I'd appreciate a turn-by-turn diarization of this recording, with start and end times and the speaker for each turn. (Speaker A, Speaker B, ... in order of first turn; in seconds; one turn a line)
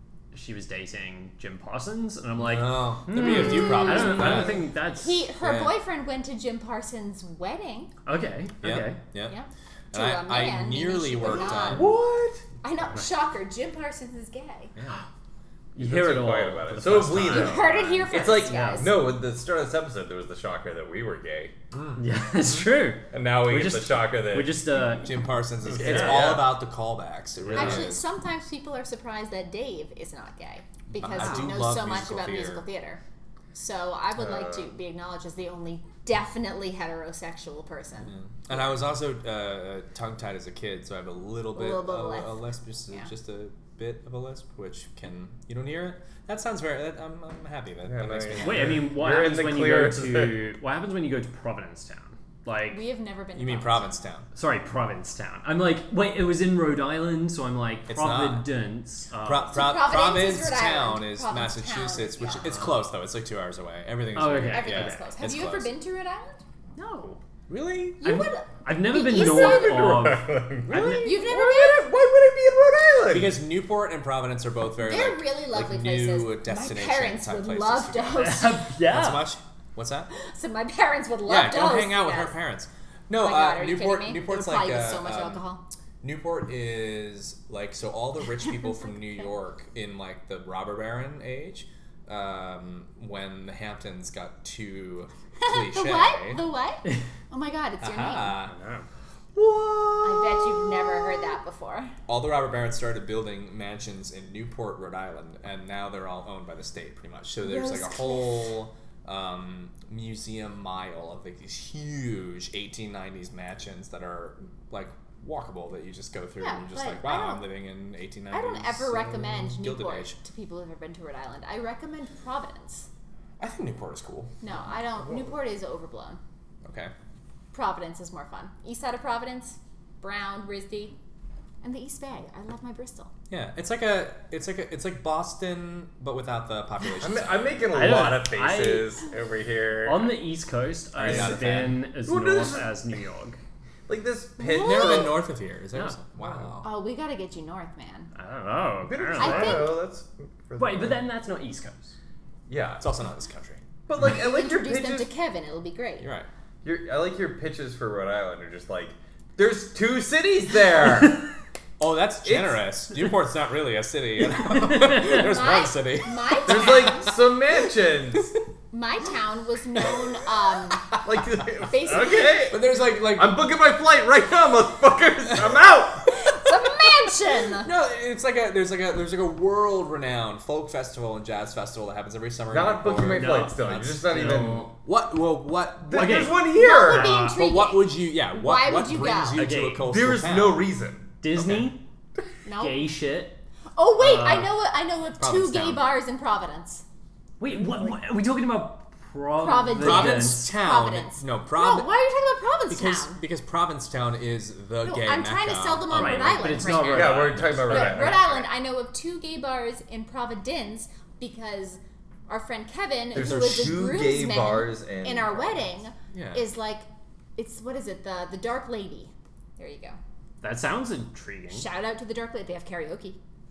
Speaker A: 0.3-5.2
Speaker B: 2.4-4.7
Speaker C: 3.2-7.9
Speaker B: 5.4-5.7
Speaker A: 8.1-9.0
Speaker B: 8.6-9.3
Speaker C: 9.2-11.9
Speaker B: 9.9-11.9
Speaker D: 11.2-12.4
Speaker C: 12.6-14.7
Speaker B: 14.8-15.0
Speaker A: 15.7-19.0
Speaker D: 15.8-21.5
Speaker C: 17.3-19.0
Speaker B: 21.7-22.0
Speaker A: 22.0-26.4
Speaker D: 23.1-24.6
Speaker B: 25.0-28.0
Speaker D: 25.8-26.6
Speaker A: 27.5-27.9
Speaker C: 27.5-33.0
Speaker B: 31.0-32.6
Speaker C: 33.5-38.1
Speaker D: 34.1-34.7
Speaker B: 38.0-48.8
Speaker C: 41.5-42.3
Speaker D: 47.9-50.5
Speaker A: 48.4-52.8
Speaker C: 52.7-53.9
Speaker B: 53.3-54.3
Speaker A: 54.3-59.7
Speaker B: 57.9-58.5
Speaker B: 59.2-65.7
Speaker C: 59.5-62.6
Speaker A: 62.4-62.7
Speaker A: 64.1-65.0
Speaker C: 64.5-66.8
Speaker A: 66.8-67.2
Speaker B: 67.5-68.0
Speaker C: 68.0-70.0
Speaker A: 68.0-71.2
Speaker D: 69.1-73.4
Speaker B: 70.7-71.0
Speaker C: 71.0-71.9
Speaker B: 73.0-78.3
Speaker C: 74.8-78.6
Speaker A: 78.2-79.3
Speaker B: 78.8-80.1
Speaker C: 80.1-82.3
Speaker B: 81.2-85.4
Speaker C: 83.2-85.6
Speaker B: 86.0-96.4
Speaker C: 88.4-89.3
Speaker C: 95.4-98.4
Speaker B: 97.8-98.5
Speaker A: 98.4-98.9
Speaker D: 99.3-101.3
Speaker C: 100.0-101.9
Speaker B: 102.1-120.2
Speaker C: 107.4-108.5
Speaker C: 116.4-117.5
Speaker C: 118.3-122.9
Speaker B: 123.4-124.3
Speaker C: 124.4-126.2
Speaker B: 126.6-126.9
Speaker C: 127.5-130.9
Speaker C: 131.6-133.1
Speaker B: 133.3-137.6
Speaker D: 137.0-140.2
Speaker A: 137.7-139.0
Speaker A: 139.8-143.4
Speaker D: 141.0-141.5
Speaker B: 141.0-141.8
Speaker D: 142.0-142.8
Speaker D: 143.9-145.2
Speaker C: 144.4-145.3
Speaker B: 144.4-146.7
Speaker D: 146.2-146.5
Speaker C: 146.6-148.1
Speaker A: 148.1-149.7
Speaker D: 148.8-151.0
Speaker C: 149.2-149.8
Speaker A: 150.6-151.9
Speaker D: 152.5-152.9
Speaker B: 152.8-153.6
Speaker D: 153.9-155.1
Speaker C: 154.0-156.1
Speaker B: 156.0-156.3
Speaker D: 156.6-161.2
Speaker B: 161.8-166.9
Speaker D: 162.2-162.6
Speaker C: 165.0-167.1
Speaker D: 166.4-168.3
Speaker C: 168.7-170.9
Speaker D: 171.0-176.3
Speaker C: 171.7-172.5
Speaker B: 172.5-173.5
Speaker C: 176.2-177.7
Speaker B: 177.6-186.3
Speaker D: 182.5-184.7
Speaker A: 183.0-184.7
Speaker D: 185.8-187.3
Speaker A: 185.9-187.4
Speaker C: 186.4-189.4
Speaker B: 187.3-190.6
Speaker A: 189.3-189.9
Speaker D: 189.8-191.6
Speaker A: 191.2-191.8
Speaker C: 192.4-192.8
Speaker A: 192.6-193.4
Speaker C: 193.8-196.8
Speaker A: 194.0-194.5
Speaker B: 195.2-195.8
Speaker A: 197.4-200.5
Speaker C: 199.4-203.2
Speaker B: 199.8-201.9
Speaker B: 202.7-206.9
Speaker C: 204.8-220.0
Speaker A: 205.9-208.2
Speaker D: 206.9-208.5
Speaker D: 213.1-215.8
Speaker B: 216.1-216.5
Speaker A: 220.4-221.7
Speaker C: 221.5-223.2